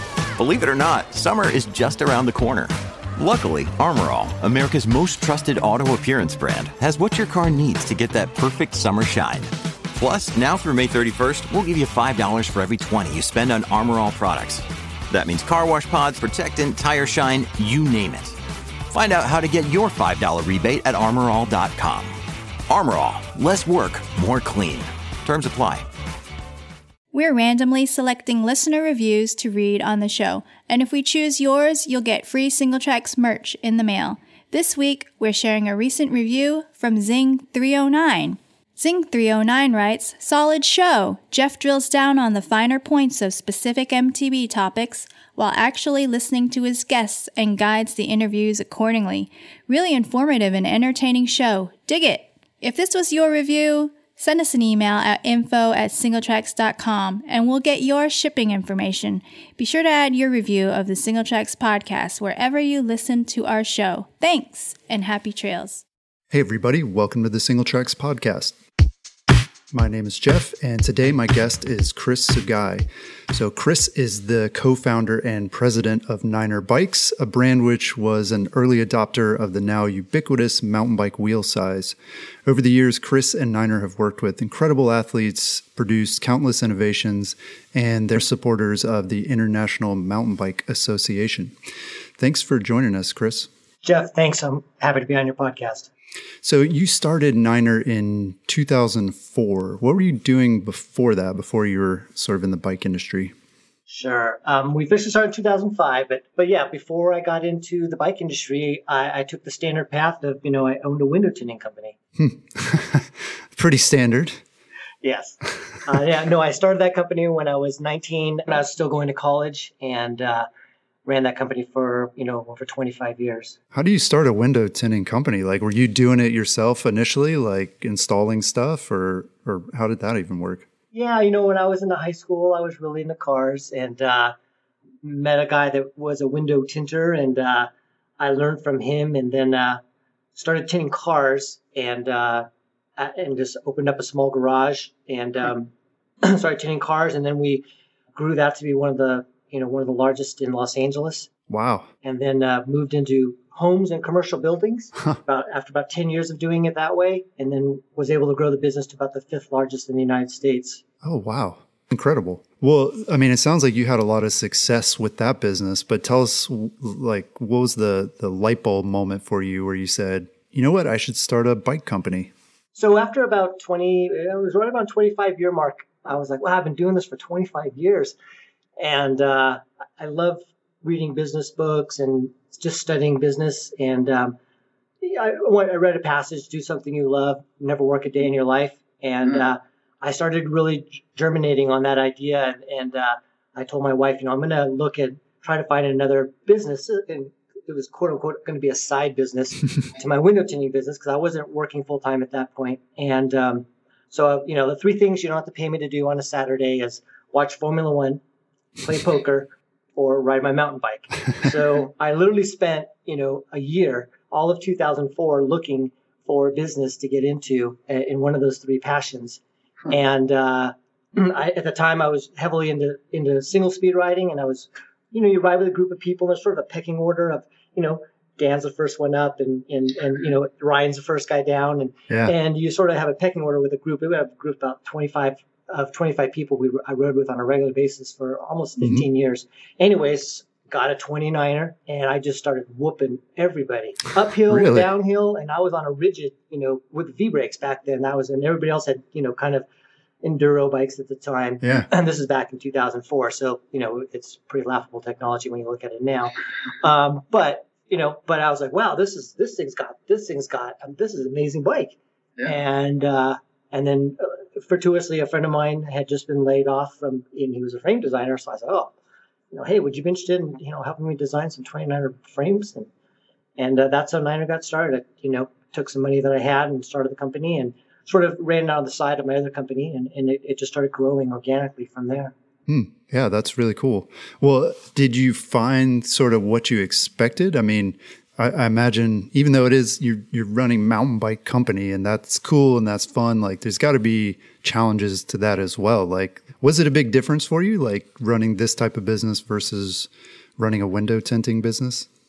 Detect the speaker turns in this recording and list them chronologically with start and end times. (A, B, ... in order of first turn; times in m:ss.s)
0:00.4-0:18.4 A
0:18.9-0:22.1 A
0:22.7-0:25.8 A
0:27.1-1:05.8 B
1:06.3-1:08.6 C
1:09.7-1:31.5 C
1:32.2-1:33.5 C
1:33.8-1:35.9 D
1:36.4-1:43.3 C
1:43.9-1:52.0 D
1:52.2-1:54.4 C
1:55.0-2:00.5 D
2:01.0-2:03.6 D
2:03.7-2:10.7 C
2:10.9-2:14.3 D
2:15.0-2:19.8 D
2:20.4-2:25.7 D
2:26.2-2:31.3 D
2:31.5-2:31.9 C
2:32.0-2:40.8 D
2:41.0-2:52.3 C
2:52.8-2:58.2 D
2:58.8-3:04.4 D
3:05.0-3:28.2 D
3:28.8-4:09.7 D
3:52.1-3:52.3 C
3:58.8-3:59.0 C
4:04.5-4:04.9 C
4:10.2-4:28.9 D
4:11.6-4:11.9 C
4:29.5-4:32.9 D
4:33.6-4:42.3 D
4:42.7-5:02.1 C